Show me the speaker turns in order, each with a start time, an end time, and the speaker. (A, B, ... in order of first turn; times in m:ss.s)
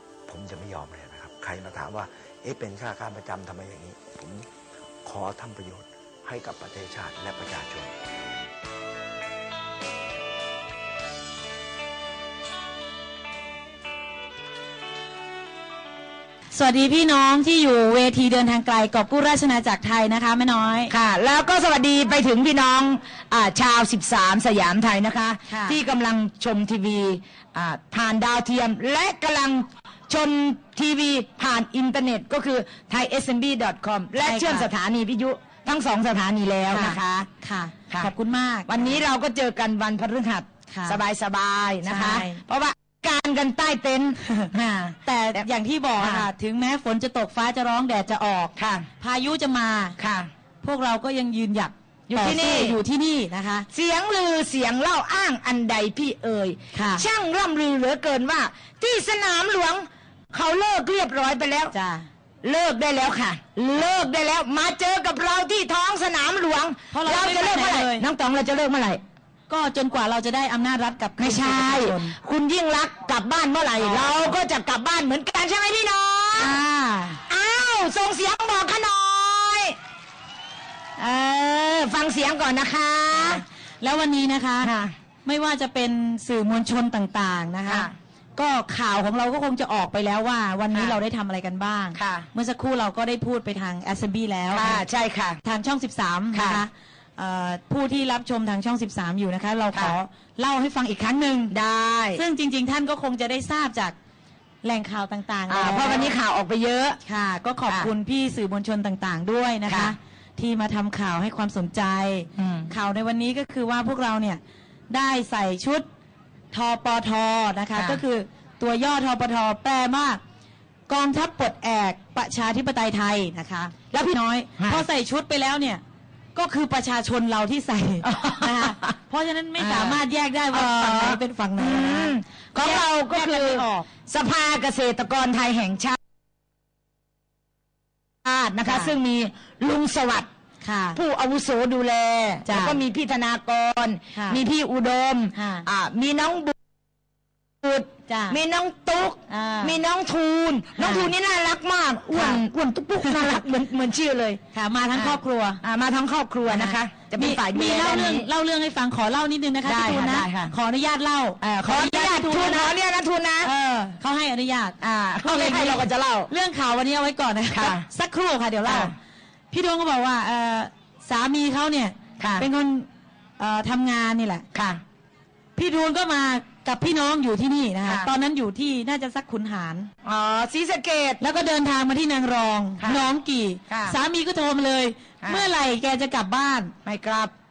0:00.3-0:04.5 A
0:05.0-0:08.0 A
0:16.5-0:20.9 B
0:20.9-0:37.3 C
0:25.5-0:25.8 B
0:34.2-0:34.7 B
0:36.7-0:39.0 B
0:38.7-0:45.5 C
0:40.7-0:41.0 B
0:41.8-0:42.4 B
0:44.2-0:44.5 B
0:45.0-0:50.0 B
0:46.0-0:46.3 C
0:48.6-0:48.9 C
0:50.0-0:50.3 C
0:50.6-0:53.7 B
0:52.1-0:52.8 C
0:53.7-1:01.7 C
0:56.7-0:57.0 B
1:01.7-1:02.1 B
1:02.4-1:09.0 C
1:06.9-1:08.0 B
1:09.5-1:12.2 B
1:11.2-1:16.6 C
1:13.8-1:14.1 B
1:16.3-1:17.2 B
1:17.3-1:19.8 C
1:21.0-1:23.4 C
1:23.2-1:24.7 B
1:24.6-1:24.9 C
1:25.2-1:34.8 B
1:27.7-1:27.9 C
1:32.0-1:32.3 C
1:34.5-1:35.4 C
1:35.4-1:41.5 B
1:36.3-1:36.6 C
1:41.5-1:42.2 C
1:42.2-1:44.0 B
1:44.6-1:46.2 B
1:45.5-1:47.0 C
1:47.0-1:55.8 B
1:49.7-1:49.9 C
1:52.4-1:52.7 C
1:56.5-2:00.2 B
1:57.7-1:58.0 C
2:00.9-2:05.8 B
2:03.9-2:04.8 C
2:06.4-2:13.9 B
2:08.0-2:08.9 C
2:09.6-2:10.0 C
2:10.5-2:16.0 C
2:18.2-2:20.3 C
2:18.7-2:19.0 B
2:20.6-2:21.0 B
2:21.0-2:26.6 C
2:22.4-2:22.8 B
2:24.1-2:24.4 B
2:25.3-2:25.7 B
2:27.6-2:34.4 C
2:28.1-2:28.4 B
2:29.3-2:29.8 B
2:30.8-2:31.1 B
2:32.1-2:32.4 B
2:33.0-2:33.4 B
2:34.5-2:35.6 B
2:34.9-2:38.3 C
2:36.5-2:42.7 B
2:39.6-2:40.5 C
2:41.4-2:43.5 C
2:43.4-2:48.9 B
2:44.8-2:46.3 C
2:47.5-2:47.9 C
2:48.6-2:48.9 C
2:49.5-2:54.5 B
2:52.2-2:52.5 C
2:54.5-2:54.8 C
2:55.6-2:59.9 B
2:57.8-2:58.1 C
3:00.0-3:01.2 C
3:01.2-3:06.7 B
3:03.7-3:04.0 C
3:05.2-3:05.5 C
3:06.8-3:07.3 C